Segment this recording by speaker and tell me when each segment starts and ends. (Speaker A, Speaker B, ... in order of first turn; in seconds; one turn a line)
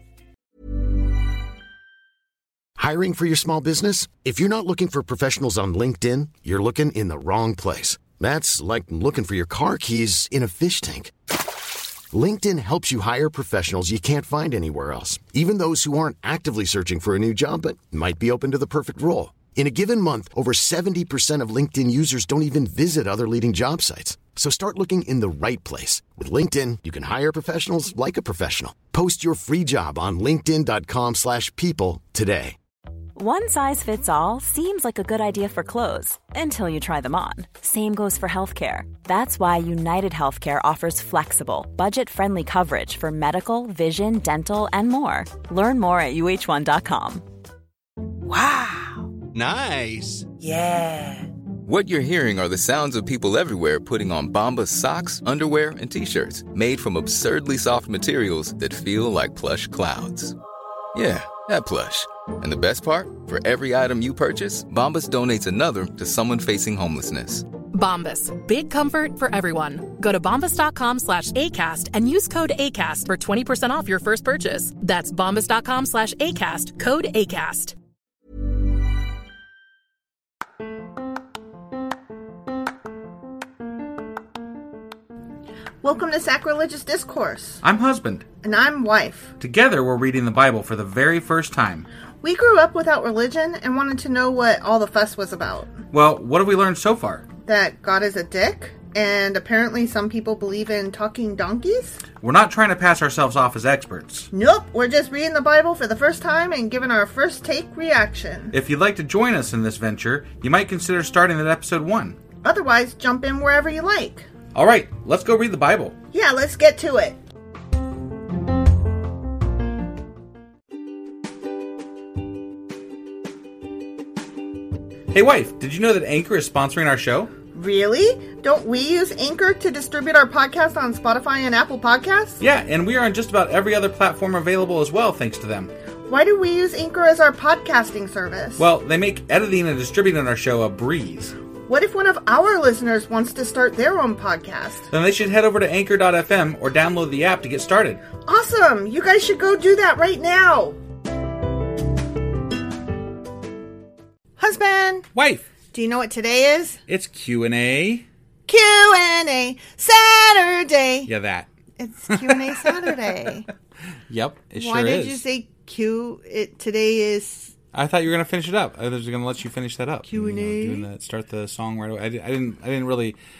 Speaker A: 2.8-11.1
Speaker A: 12.1-32.5
Speaker B: 33.2-47.2
Speaker C: 51.7-60.3
Speaker C: 61.0-67.5
Speaker D: 67.7-77.7
Speaker E: 85.8-87.6
Speaker F: 87.6-88.2
Speaker E: 88.4-89.3
Speaker F: 89.4-91.9
Speaker E: 92.2-95.7
Speaker F: 95.9-97.3
Speaker E: 97.4-102.0
Speaker F: 102.2-104.3
Speaker E: 104.3-108.5
Speaker F: 108.5-112.2
Speaker E: 112.4-114.3
Speaker F: 114.5-116.0
Speaker E: 116.1-117.2
Speaker F: 125.1-127.3
Speaker E: 127.5-132.4
Speaker F: 132.4-135.7
Speaker E: 136.1-138.7
Speaker F: 138.6-141.3
Speaker E: 141.7-144.9
Speaker F: 144.9-148.0
Speaker E: 148.2-150.8
Speaker E: 154.4-155.1
Speaker F: 155.1-155.5
Speaker E: 155.7-156.8
Speaker F: 156.9-158.1
Speaker E: 158.5-161.1
Speaker F: 161.1-161.5
Speaker E: 161.8-163.5
Speaker F: 162.1-162.7
Speaker F: 164.1-165.2
Speaker E: 164.6-167.5
Speaker F: 167.7-173.2
Speaker E: 170.1-170.9